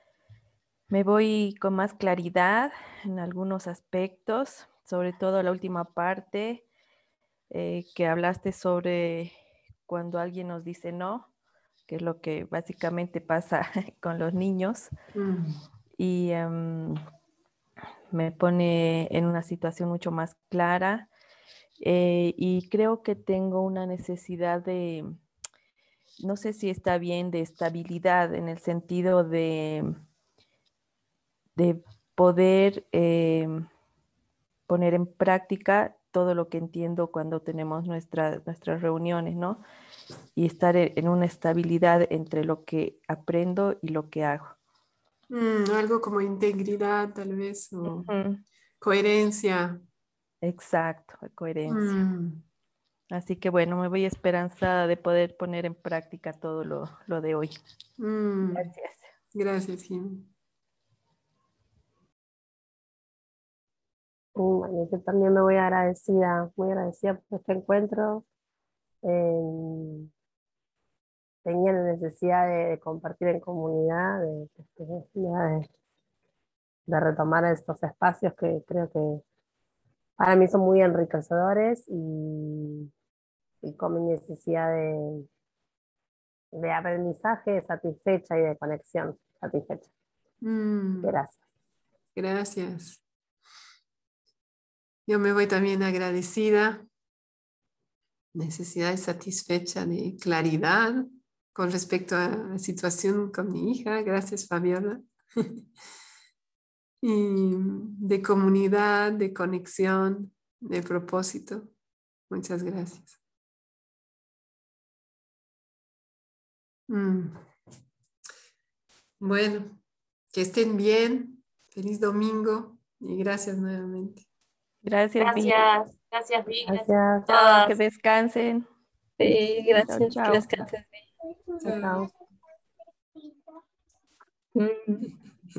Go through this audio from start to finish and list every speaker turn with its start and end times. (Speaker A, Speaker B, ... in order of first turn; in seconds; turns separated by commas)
Speaker A: 0.9-6.7, Speaker A: 7.5-9.3, Speaker A: 9.8-11.3, Speaker A: 11.9-14.9, Speaker B: 15.1-15.6, Speaker A: 16.0-17.0, Speaker A: 18.1-21.1, Speaker A: 21.8-25.1, Speaker A: 26.2-30.0, Speaker A: 31.6-33.7, Speaker A: 34.7-39.6, Speaker A: 40.4-44.6, Speaker B: 45.3-48.1, Speaker A: 47.9-48.4, Speaker B: 48.8-49.8, Speaker A: 50.4-52.0, Speaker B: 51.7-52.5, Speaker A: 53.1-57.5, Speaker B: 58.0-58.7, Speaker A: 58.5-59.1, Speaker B: 59.3-60.3, Speaker C: 64.3-68.3, Speaker C: 69.0-70.1, Speaker C: 71.4-75.7, Speaker C: 76.9-79.2, Speaker C: 80.2-82.9, Speaker C: 83.6-85.3, Speaker C: 86.5-89.9, Speaker B: 90.4-91.2, Speaker C: 91.0-91.4, Speaker B: 92.2-93.0, Speaker B: 95.1-96.8, Speaker B: 98.3-105.7, Speaker B: 107.0-111.7, Speaker B: 112.3-113.2, Speaker B: 116.9-117.4, Speaker B: 119.2-119.8, Speaker B: 120.3-124.3, Speaker A: 124.8-125.6, Speaker D: 125.2-127.8, Speaker C: 126.7-127.6, Speaker A: 127.6-128.7, Speaker E: 129.2-131.1, Speaker A: 129.9-130.7, Speaker B: 131.6-132.0, Speaker C: 131.6-132.1, Speaker E: 134.6-135.1